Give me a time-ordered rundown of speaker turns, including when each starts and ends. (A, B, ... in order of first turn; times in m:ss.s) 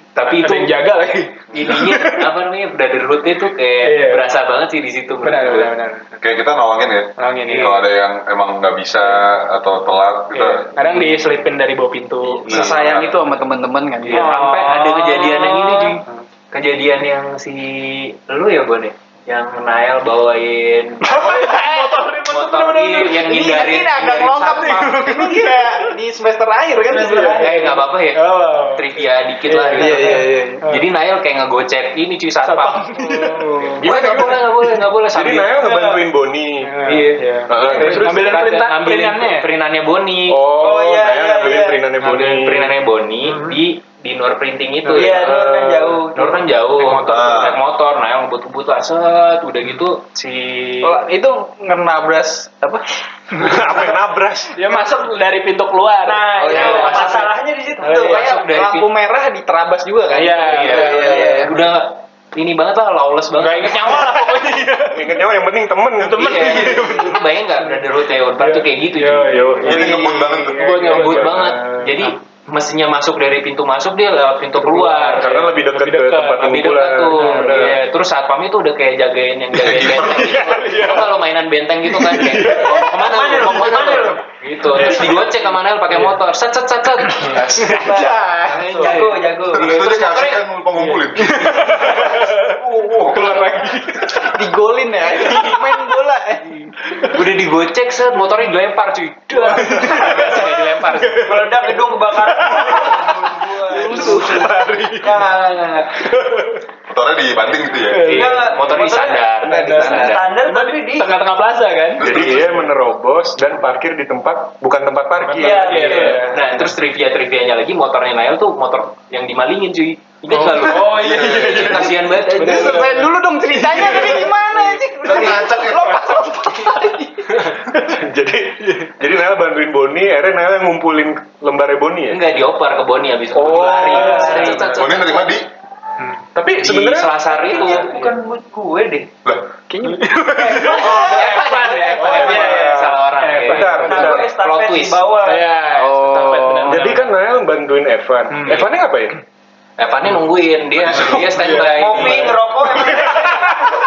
0:00.2-0:00.8 A
0:00.3-0:02.3 B
0:01.5-0:05.8 A
0:03.8-0:04.3 B
0:05.2-0:06.2 B
0:06.2-0:11.0 C
0:07.2-0:07.8 B
0:07.4-0:07.8 A
0:10.3-0:12.8 B
0:12.4-0:13.3 C
0:12.4-0:14.4 D
0:14.0-0:21.3 A
0:14.1-0:16.2 B
0:21.0-0:23.5 B
0:21.1-0:22.0 D
0:22.3-0:24.9 A
0:23.2-0:27.6 D
0:24.5-0:25.9 B
0:27.0-0:27.6 E
0:27.1-0:29.0 B
0:27.4-0:32.9 A
0:29.5-0:30.8 B
0:29.6-0:30.6 D
0:32.4-0:33.5 B
0:33.0-0:33.8 D
0:33.8-0:35.7 A
0:33.8-0:36.7 F
0:36.6-0:39.5 B
0:36.8-0:40.4 A
0:37.5-0:38.4 F
0:40.3-0:42.7 F
0:40.6-0:41.9 E
0:42.0-0:42.3 B
0:42.0-0:45.5 A
0:43.2-0:43.6 B
0:44.8-0:45.3 B
0:45.0-0:46.4 E
0:45.4-0:45.7 F
0:46.1-0:51.0 A
0:46.3-0:47.6 B
0:47.0-0:47.6 C
0:50.8-0:53.6 D
0:53.4-0:54.7 F
0:54.6-0:57.0 B
0:56.0-0:58.2 E
0:56.4-0:57.3 D
0:56.5-0:57.3 A
0:57.8-1:01.6 D
0:57.8-0:58.9 A
1:00.1-1:01.6 B
1:00.5-1:04.2 A
1:03.4-1:05.2 B
1:04.9-1:06.9 F
1:06.0-1:07.9 B
1:06.2-1:09.4 A
1:08.4-1:11.8 F
1:08.8-1:12.2 B
1:09.6-1:11.1 C
1:10.6-1:15.5 A
1:14.6-1:17.8 B
1:15.2-1:17.8 F
1:16.4-1:28.0 A
1:19.6-1:20.3 C
1:20.1-1:20.8 F
1:20.4-1:21.1 B
1:21.9-1:22.7 F
1:22.5-1:22.8 B
1:22.8-1:24.2 E
1:24.6-1:25.3 B
1:25.9-1:26.2 B
1:27.1-1:29.1 B
1:27.6-1:30.4 E
1:27.8-1:28.5 D
1:28.5-1:30.4 A
1:29.5-1:33.4 C
1:30.8-1:34.4 B
1:34.2-1:36.7 D
1:35.3-1:35.6 B
1:36.9-1:37.2 B
1:37.1-1:41.4 A
1:39.4-1:45.2 B
1:41.2-1:46.1 E
1:43.7-1:44.5 D
1:46.0-1:46.6 B
1:46.9-1:48.2 C
1:47.8-1:48.6 B
1:47.9-1:50.3 A
1:48.0-1:51.2 E
1:49.4-1:50.2 D
1:49.5-1:52.6 B
1:52.0-1:52.5 C
1:52.0-1:56.2 F
1:55.2-1:56.6 B
1:55.4-1:56.2 E
1:55.8-2:02.9 A
2:00.3-2:04.8 B
2:00.8-2:01.9 C
2:02.2-2:07.5 D
2:05.0-2:06.2 C
2:07.4-2:12.2 F
2:12.1-2:15.3 A
2:13.4-2:14.8 B
2:13.4-2:14.1 F
2:13.7-2:14.2 D
2:14.0-2:14.8 E
2:14.6-2:15.5 C
2:16.3-2:17.2 F
2:16.6-2:18.0 A
2:17.4-2:19.1 E
2:17.5-2:18.1 B
2:19.7-2:20.4 D
2:19.8-2:24.2 B
2:20.4-2:22.6 E
2:20.7-2:25.0 A
2:23.3-2:24.3 F
2:23.8-2:25.5 E
2:25.2-2:27.2 B
2:25.7-2:27.0 D
2:26.6-2:29.2 F
2:28.3-2:28.8 B
2:29.8-2:32.4 A
2:31.0-2:31.7 F
2:31.4-2:32.3 B
2:31.6-2:33.6 E
2:33.0-2:33.7 B